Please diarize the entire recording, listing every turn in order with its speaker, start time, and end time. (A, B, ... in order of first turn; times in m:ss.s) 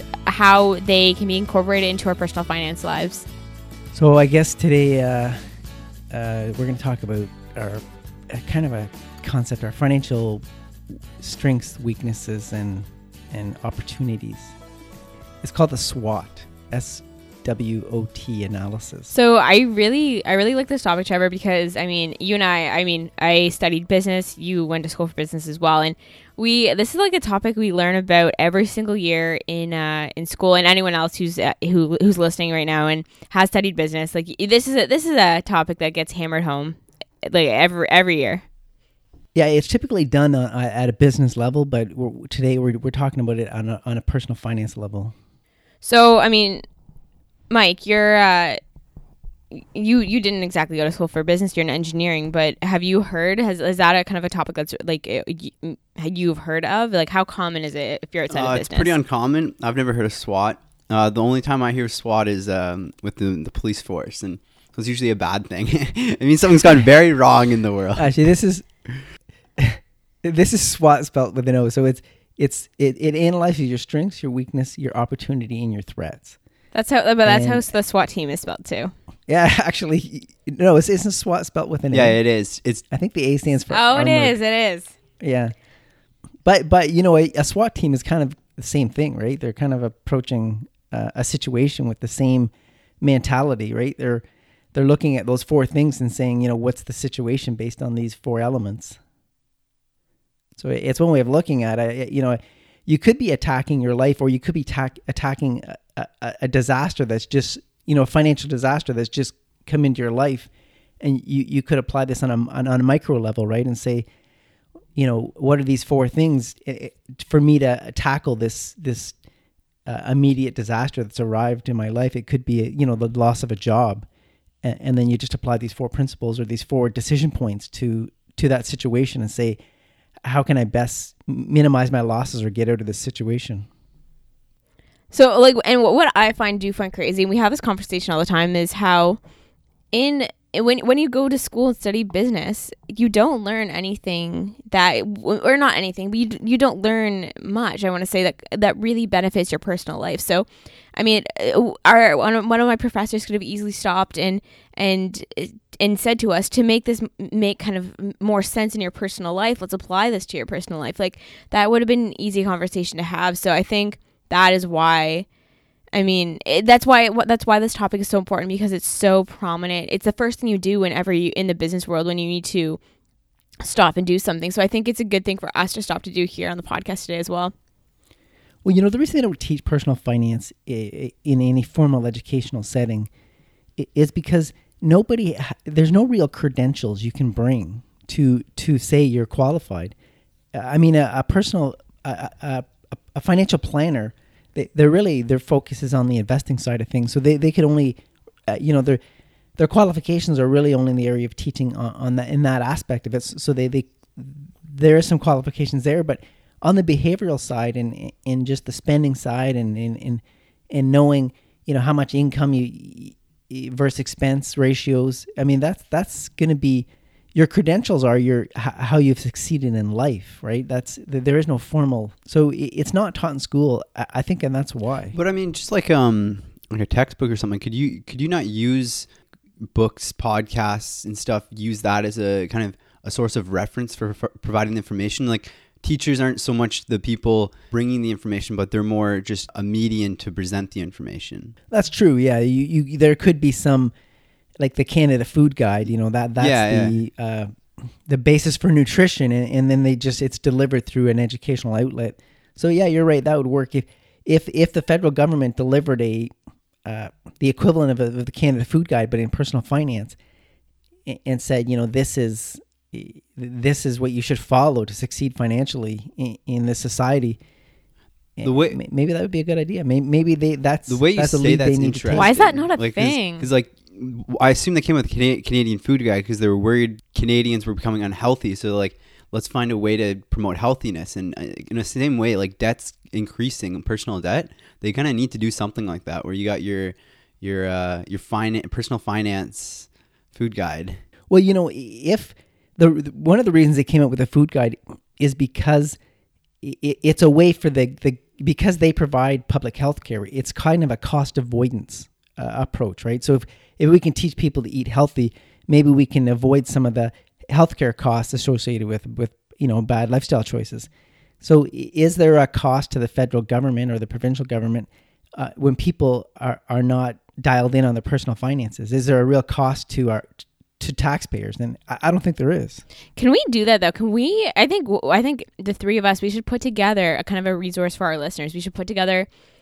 0:00.2-0:03.3 A
0:03.9-0:05.4 B
0:06.1-0:10.4 B
0:11.2-0:14.5 B
0:15.4-0:19.1 B
0:19.1-0:38.4 A
0:39.3-0:45.1 B
0:45.8-0:46.6 A
0:47.5-0:48.6 A
0:49.5-0:58.9 A
0:58.3-1:08.1 C
1:08.0-1:08.6 B
1:09.6-1:16.4 B
1:16.7-1:18.9 A
1:17.2-1:17.7 B
1:19.3-1:22.2 B
1:21.9-1:22.8 C
1:22.9-1:24.4 B
1:23.7-1:24.9 A
1:25.2-1:25.5 B
1:26.4-1:39.0 B
1:40.6-1:50.5 B
1:51.0-1:54.1 B
1:55.0-1:59.2 B
1:59.8-2:04.0 B
2:04.6-2:09.6 B
2:10.2-2:13.7 B
2:15.1-2:19.2 A
2:19.9-2:45.2 A
2:45.9-2:52.8 A
2:53.6-2:57.5 A
2:58.6-3:03.1 B
3:03.8-3:09.9 B
3:10.5-3:19.0 B
3:19.6-3:45.2 B
3:45.1-3:49.1 C
3:49.6-4:01.5 C
4:01.7-4:03.9 B
4:04.6-4:07.5 B
4:06.4-4:06.9 C
4:08.0-4:16.3 B
4:16.8-4:20.2 B
4:21.0-4:27.4 B
4:28.4-4:32.6 B
4:28.4-4:28.8 C
4:30.9-4:51.0 C
4:32.1-4:33.5 A
4:51.3-4:56.0 B
4:56.6-5:10.9 B
5:11.4-5:22.8 B
5:23.2-5:29.3 A